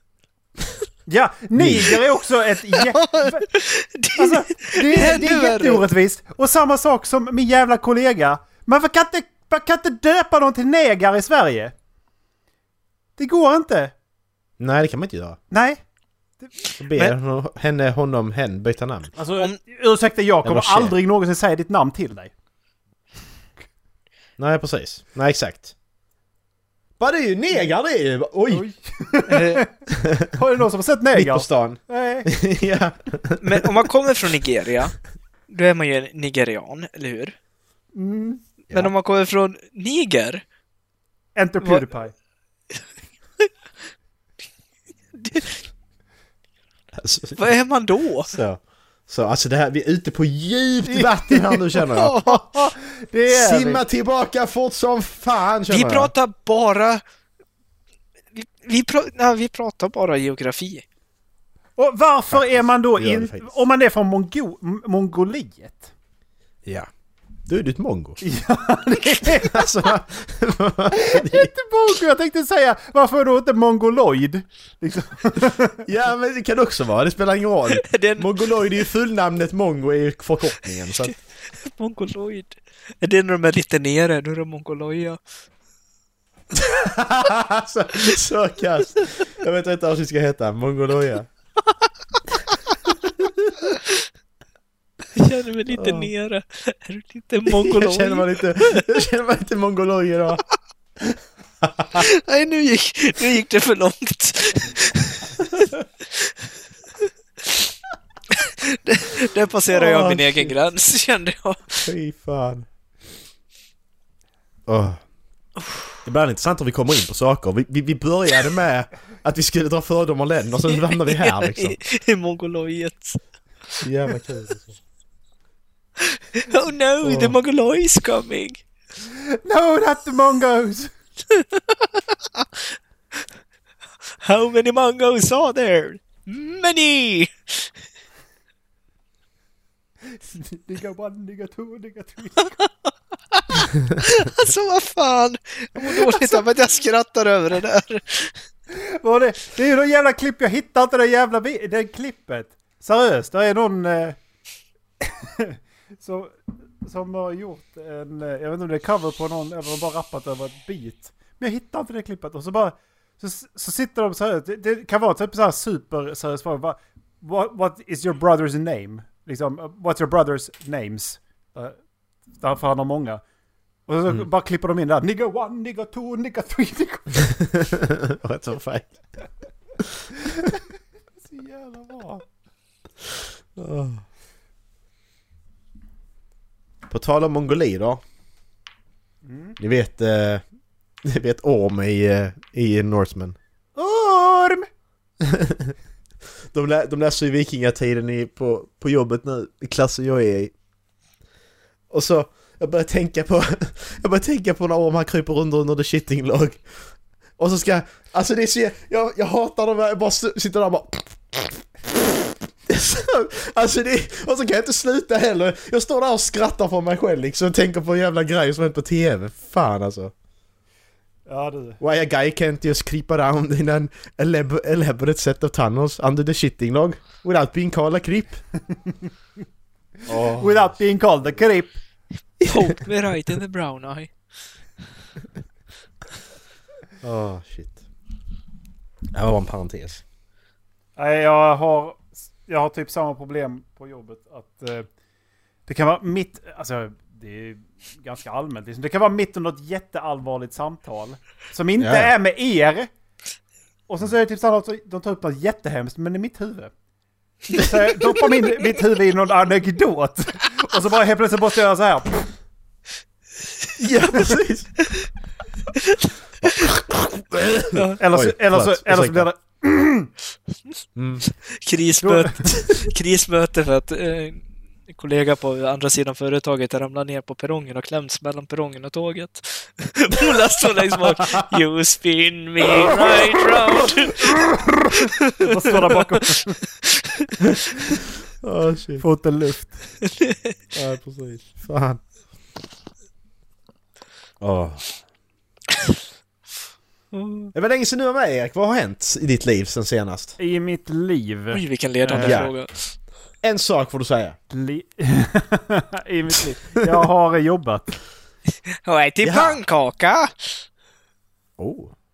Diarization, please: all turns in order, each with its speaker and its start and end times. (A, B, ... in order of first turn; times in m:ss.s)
0:01.1-0:03.4 A
0:01.6-0:02.0 B
0:02.8-0:05.8 C
0:04.2-0:11.7 A
0:13.2-0:13.9 A
0:14.6-0:15.4 B
0:15.5-0:15.8 A
0:16.8-0:19.1 B
0:19.2-0:22.3 A
0:20.4-0:21.0 B
0:24.4-0:25.7 B
0:27.0-0:28.6 B
0:28.5-0:29.8 A
0:29.3-0:29.6 C
0:29.9-0:30.3 B
0:30.3-0:32.3 A
0:31.1-0:33.7 B
0:33.4-0:35.0 C
0:35.5-0:37.4 C
0:37.9-0:38.4 A
0:38.7-0:40.4 C
0:41.4-0:42.1 A
0:45.2-0:45.6 C
0:47.0-0:47.5 B
0:47.4-0:48.3 C
0:48.2-0:52.2 B
0:50.9-0:53.8 A
0:51.9-0:52.4 C
0:53.3-0:56.1 B
0:55.7-0:57.0 C
0:58.4-1:00.8 C
1:01.8-1:05.9 A
1:02.3-1:03.5 B
1:07.5-1:08.2 B
1:08.2-1:09.7 A
1:09.3-1:11.5 B
1:10.9-1:15.8 A
1:15.8-1:21.2 B
1:17.7-1:18.3 C
1:21.6-1:25.2 C
1:26.5-1:31.3 B
1:33.0-1:33.5 B
1:35.2-1:39.0 C
1:35.7-1:36.1 B
1:37.5-1:40.4 B
1:41.0-1:42.0 B
1:42.0-1:45.5 C
1:48.3-1:51.9 C
1:49.7-1:50.6 B
1:51.8-1:52.7 B
1:54.7-1:55.0 B
1:56.0-2:01.8 B
2:00.7-2:03.2 C
2:03.8-2:04.8 B
2:06.0-2:08.6 C
2:07.0-2:07.4 B
2:09.0-2:10.9 A
2:11.3-2:12.5 C
2:14.2-2:17.7 C
2:20.1-2:22.6 A
2:23.3-2:28.4 C
2:25.8-2:26.4 A
2:28.7-2:34.2 A
2:35.0-2:51.8 A
2:52.4-2:53.2 A
2:53.9-2:57.3 A
2:57.3-2:59.0 B
3:01.2-3:02.2 A
3:03.6-3:04.0 B
3:06.9-3:08.0 B
3:09.2-3:09.6 A
3:09.6-3:10.4 B
3:11.0-3:13.4 B
3:13.8-3:14.7 A
3:15.2-3:15.8 B
3:16.5-3:20.5 B
3:21.9-3:26.6 B
3:27.4-3:40.1 B
3:41.3-3:41.8 A
3:41.8-3:48.4 B
3:50.1-3:50.8 B
3:50.4-3:51.8 A
3:52.4-3:52.7 B
3:52.4-3:54.1 C
3:57.0-3:57.8 B
3:59.1-4:00.0 B
4:01.0-4:04.9 A
4:05.7-4:12.9 A
4:11.8-4:12.1 B
4:13.9-4:16.7 A
4:17.5-4:22.3 A
4:23.8-4:24.7 B
4:26.4-4:29.3 B
4:28.0-4:30.1 A
4:31.0-4:31.2 B
4:31.5-4:44.4 C
4:32.0-4:32.6 A
4:45.0-4:45.4 C
4:45.3-4:46.6 A
4:48.4-4:49.0 B
4:49.0-4:49.8 A
4:50.0-4:50.5 C
4:50.7-4:52.0 B
4:54.4-4:54.8 B
4:57.1-4:57.5 C
4:57.6-5:00.4 B
5:00.4-5:02.5 A
5:01.5-5:02.9 C
5:02.2-5:02.5 B
5:03.4-5:04.4 B
5:04.5-5:08.0 A
5:08.8-5:10.6 C
5:09.2-5:09.6 B
5:11.6-5:11.9 B